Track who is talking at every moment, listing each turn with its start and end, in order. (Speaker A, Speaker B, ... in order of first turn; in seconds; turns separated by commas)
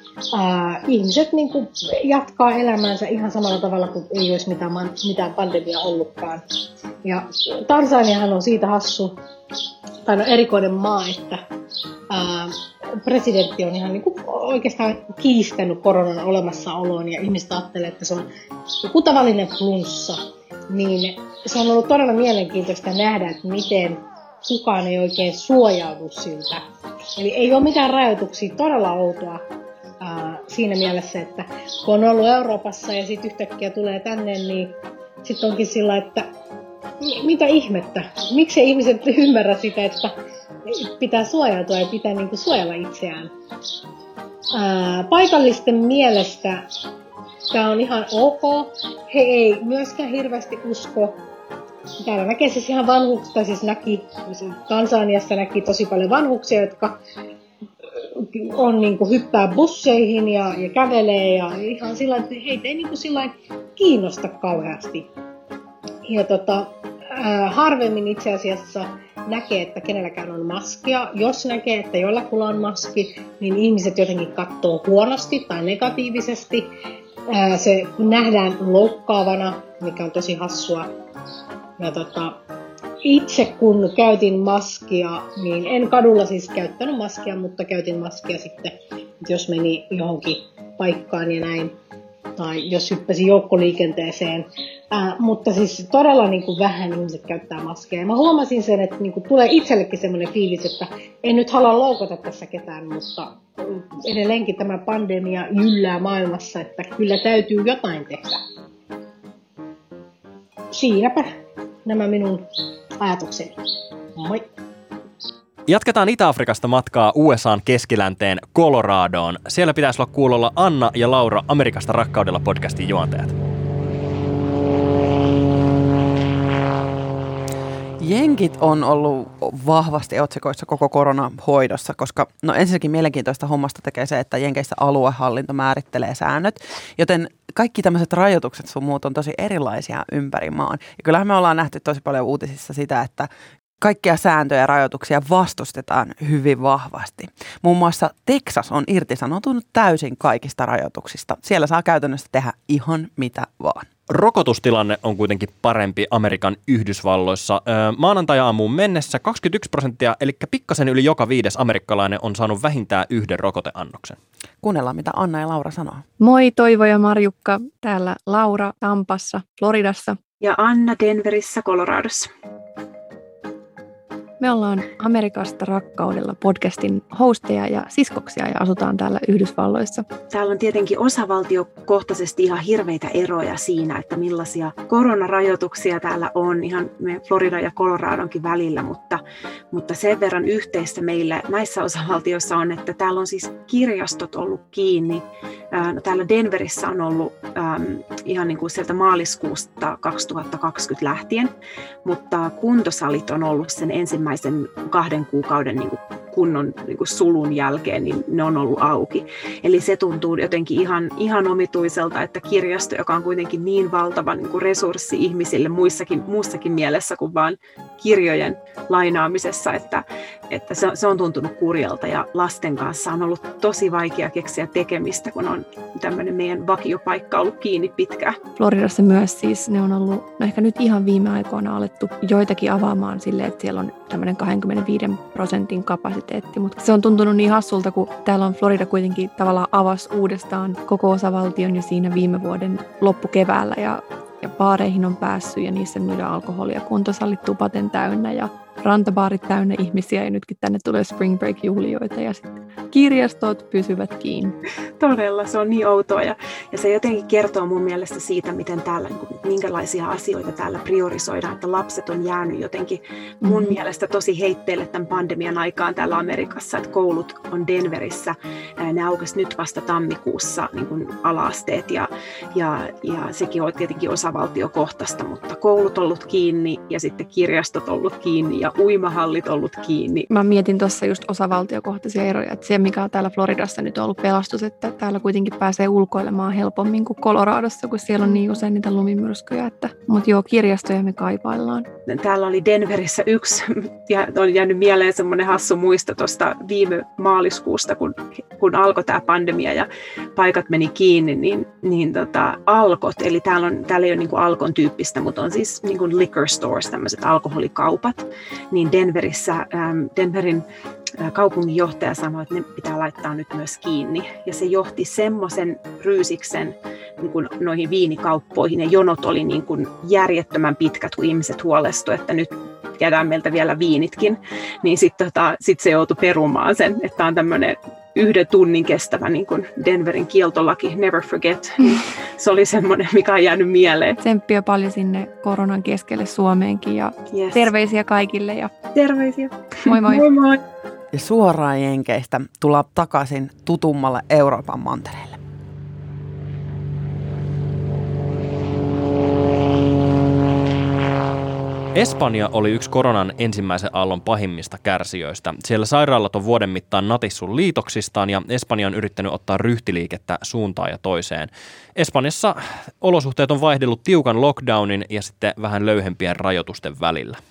Speaker A: 0.3-6.4, Speaker A: 7.0-9.2, Speaker A: 10.0-11.4, Speaker A: 12.1-18.3, Speaker A: 18.8-26.6, Speaker A: 27.2-29.4, Speaker A: 30.0-36.3, Speaker A: 37.0-40.1, Speaker A: 40.6-43.3, Speaker A: 44.5-46.6, Speaker A: 47.5-51.2, Speaker A: 52.0-57.0, Speaker A: 58.1-65.1, Speaker A: 66.1-76.7, Speaker A: 77.3-80.9, Speaker A: 81.8-82.4, Speaker A: 83.0-91.7, Speaker A: 92.4-108.4, Speaker A: 110.7-111.3, Speaker A: 111.8-112.5, Speaker A: 113.0-113.5, Speaker A: 114.2-114.4, Speaker B: 115.7-123.3, Speaker C: 128.0-153.9, Speaker B: 154.1-164.2, Speaker C: 164.6-166.0, Speaker D: 166.2-170.2, Speaker E: 170.4-172.3, Speaker D: 174.4-180.1, Speaker E: 180.3-201.5, Speaker E: 202.0-228.4, Speaker D: 228.6-254.6, Speaker E: 255.0-280.3, Speaker D: 263.4-263.8, Speaker D: 280.3-291.9, Speaker E: 292.1-310.6, Speaker E: 311.2-334.2, Speaker D: 334.2-338.7, Speaker E: 337.3-337.7, Speaker E: 338.9-340.6, Speaker D: 339.8-340.3, Speaker C: 341.1-345.4, Speaker B: 351.9-367.4